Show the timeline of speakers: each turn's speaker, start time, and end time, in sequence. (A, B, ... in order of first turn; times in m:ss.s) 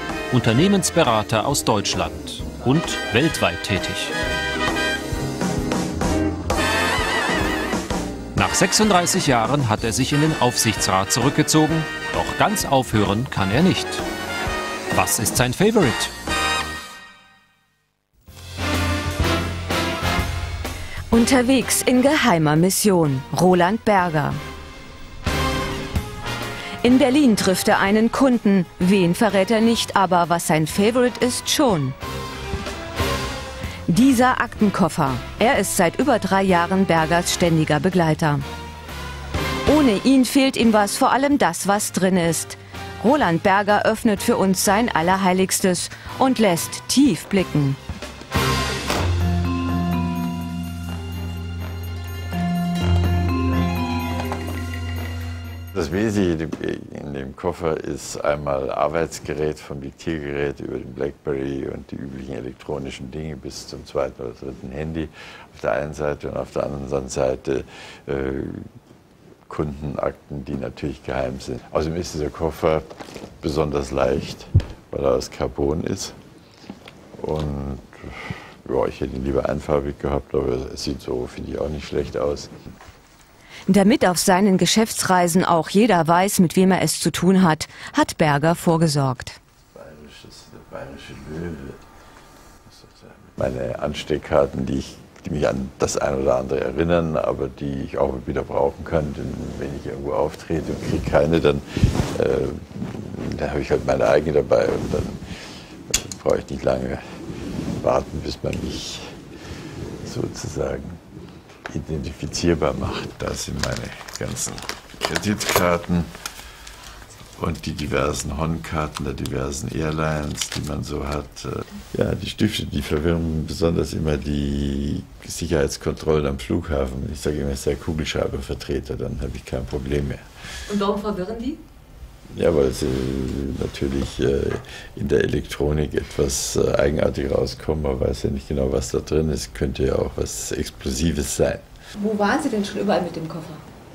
0:00.3-0:04.1 A
0:08.3-0:14.0 A
0:14.9-0:16.1 A
0:21.1-0:24.4 B
0:26.8-0:32.0 B
0:33.9-0:38.4 B
0:39.6-0:47.8 B
0:55.7-1:08.7 C
1:09.5-1:16.2 C
1:17.2-1:22.5 C
1:23.7-1:29.4 B
1:29.7-1:31.8 C
1:32.7-1:45.3 C
1:45.9-1:47.0 C
1:47.8-1:49.2 C
1:50.0-1:51.0 C
1:51.7-1:56.1 C
1:57.4-2:10.2 C
2:10.7-2:11.6 B
2:12.3-2:21.6 C
2:22.0-2:23.6 B